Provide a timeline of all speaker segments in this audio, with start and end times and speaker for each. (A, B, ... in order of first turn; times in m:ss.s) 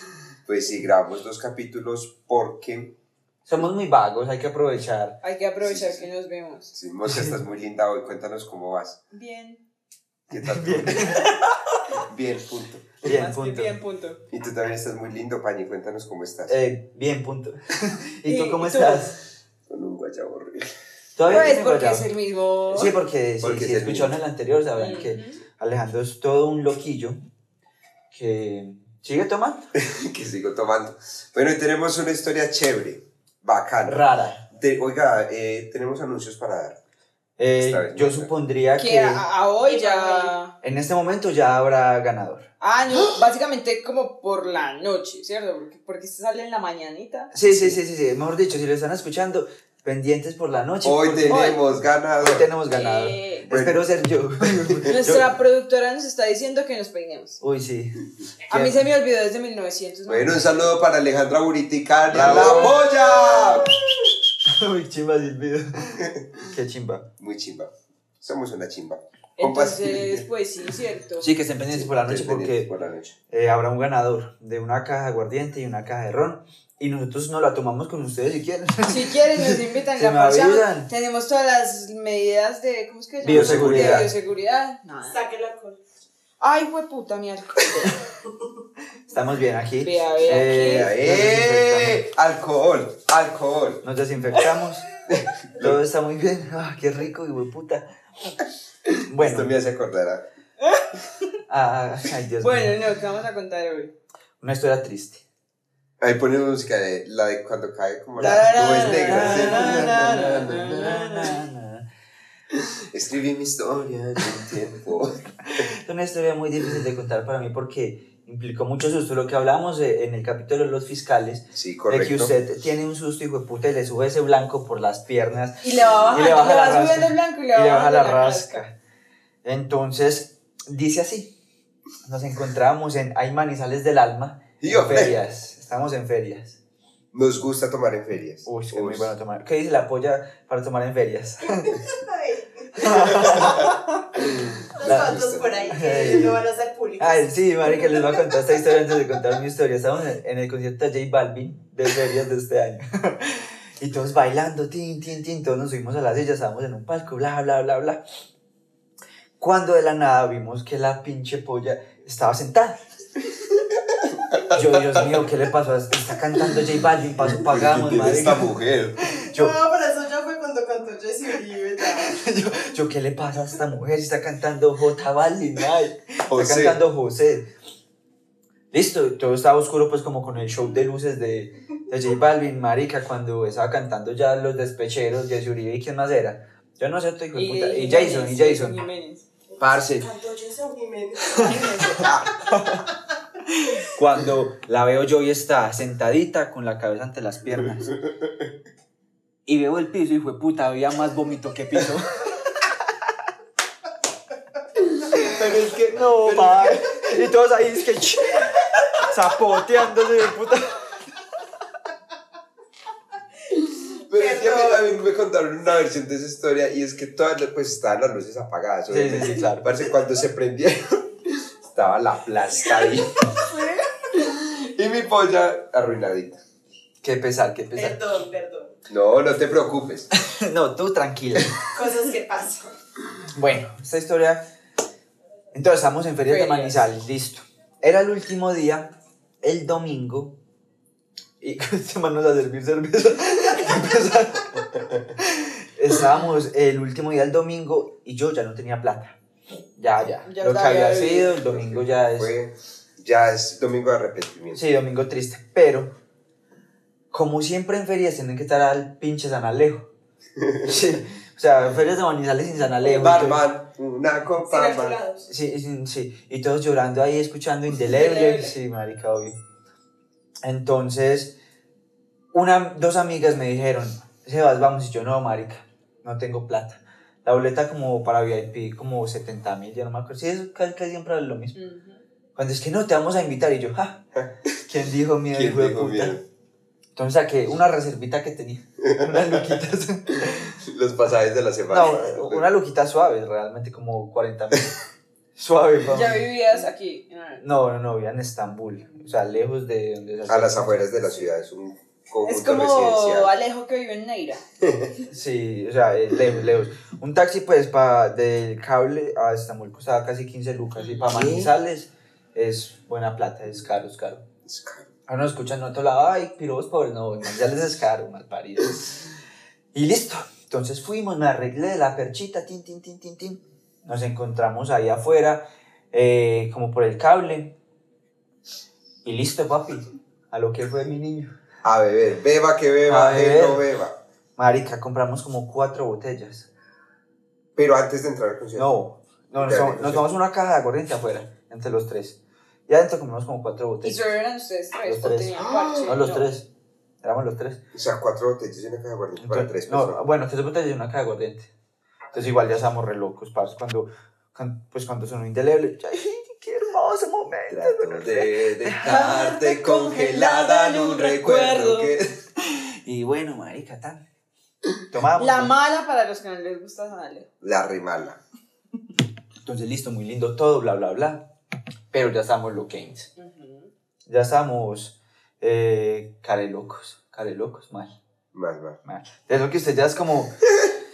0:00.5-0:02.9 A
0:03.5-0:05.2 B
0:05.2-0:06.7 C
0:05.6-0:06.1 A
0:06.7-0:09.0 A
0:07.0-0:07.4 B
0:09.1-0:09.6 C
0:10.3-0:11.3 A
0:10.4-0:11.3 B
0:12.0-0:13.0 A
0:13.0-0:13.8 B
0:13.0-0:14.2 C
0:14.3-0:16.6 A
0:16.5-0:19.2 B
0:18.2-0:19.2 C
0:19.7-0:20.7 A
0:21.2-0:22.1 B
0:21.2-0:21.6 A
0:21.3-0:22.9 C
0:22.7-0:27.2 B
0:23.4-0:24.2 A
0:24.8-0:25.4 C
0:28.1-0:29.7 B
0:29.8-0:36.8 A
0:33.8-0:34.4 B
0:37.4-0:39.3 B
0:37.6-0:38.3 A
0:38.8-0:40.6 C
0:39.6-0:40.4 D
0:40.6-0:42.5 B
0:42.6-0:47.3 C
0:47.3-0:51.5 B
0:47.4-0:47.8 A
0:50.8-0:52.5 A
0:51.3-0:51.6 C
0:52.2-0:55.3 B
0:52.7-0:53.5 C
0:53.5-0:53.8 A
0:54.9-0:57.4 C
0:57.4-0:58.8 B
0:58.5-1:00.7 C
1:00.1-1:04.1 A
1:02.1-1:02.8 C
1:02.1-1:02.8 B
1:04.4-1:07.1 B
1:07.2-1:10.3 A
1:09.4-1:11.3 C
1:11.2-1:12.7 B
1:11.7-1:13.1 A
1:13.3-1:20.9 B
1:18.9-1:25.2 C
1:23.2-1:24.1 B
1:23.3-1:24.1 A
1:25.1-1:25.8 D
1:26.4-1:28.0 C
1:29.1-1:32.1 B
1:29.8-1:30.9 C
1:30.2-1:33.8 A
1:33.8-1:34.9 B
1:35.1-1:35.8 A
1:35.6-1:37.9 B
1:38.9-1:40.2 A
1:39.0-1:39.5 B
1:41.5-1:42.8 B
1:42.4-1:43.9 C
1:44.4-1:45.2 B
1:46.0-1:51.0 A
1:48.2-1:51.4 C
1:48.2-1:51.9 B
1:52.8-1:55.2 A
1:55.5-2:08.7 B
2:01.5-2:02.4 A
2:05.6-2:08.6 C
2:09.4-2:11.4 B
2:12.0-2:16.6 B
2:14.6-2:15.2 A
2:17.1-2:19.1 A
2:18.4-2:21.8 B
2:21.8-2:23.7 D
2:22.8-2:23.7 B
2:23.2-2:26.3 A
2:24.7-2:28.9 D
2:24.8-2:25.2 B
2:25.7-2:26.4 B
2:27.0-2:38.0 B
2:39.4-2:42.8 B
2:44.3-2:45.2 A
2:44.5-2:49.6 B
2:47.2-2:49.0 A
2:49.3-2:52.2 D
2:52.0-2:57.5 B
2:56.3-2:56.8 A
2:58.7-3:08.8 B
3:07.4-3:09.3 C
3:09.6-3:12.6 D
3:09.6-3:10.1 A
3:12.0-3:12.3 A
3:12.5-3:12.8 B
3:13.6-3:17.9 B
3:19.5-3:22.5 B
3:25.1-3:30.9 B
3:25.2-3:27.2 A
3:33.9-3:43.3 A
3:34.1-3:35.0 D
3:38.9-3:39.8 B
3:43.3-3:44.0 C
3:44.1-3:46.4 A
3:47.0-3:48.0 B
3:47.8-3:48.8 D
3:48.9-3:50.1 A
3:50.2-3:51.6 B
3:51.7-3:52.7 D
3:53.3-3:54.5 B
3:55.5-4:00.4 B
3:56.2-3:56.8 C
4:01.4-4:09.2 B
4:09.8-4:12.4 B
4:10.2-4:11.4 C
4:11.4-4:14.6 A
4:14.5-4:16.0 B
4:17.1-4:19.9 B
4:20.6-4:23.4 B
4:22.8-4:25.0 A
4:24.4-4:25.3 D
4:25.3-4:29.4 B
4:27.8-4:28.6 C
4:30.4-4:31.4 B
4:32.3-4:41.6 B
4:41.6-4:42.0 C
4:42.4-4:44.0 B
4:44.2-4:44.6 A
4:44.6-4:46.2 B
4:45.3-4:46.2 A
4:47.0-4:50.6 B
4:48.8-4:49.4 A
4:50.3-4:52.5 A
4:51.7-4:54.7 B
4:55.4-4:56.3 B
4:55.9-4:57.4 C
4:57.4-5:01.3 B
5:00.3-5:03.3 A
5:02.2-5:04.4 C
5:04.6-5:04.9 A
5:05.1-5:14.2 B
5:11.1-5:11.5 A
5:14.4-5:14.9 A
5:15.1-5:19.1 B
5:19.7-5:27.6 B
5:29.0-5:31.3 B
5:31.6-5:34.0 A
5:32.9-5:33.7 B
5:34.4-5:36.5 B
5:37.6-5:38.7 A
5:38.6-5:44.1 B
5:39.4-5:40.2 A
5:43.8-5:46.3 C
5:44.8-5:46.5 B
5:45.4-5:46.0 A
5:47.0-5:47.6 B
5:47.7-5:50.0 A
5:49.2-5:51.5 B
5:52.1-5:59.2 B
5:57.5-6:02.2 A
5:58.9-6:01.9 C
6:02.4-6:04.0 B
6:04.9-6:05.5 B
6:05.2-6:07.3 C
6:07.4-6:08.2 A
6:09.4-6:11.2 B
6:11.9-6:13.1 B
6:13.2-6:13.7 C
6:14.1-6:18.0 B
6:18.3-6:18.8 A
6:18.8-6:20.4 B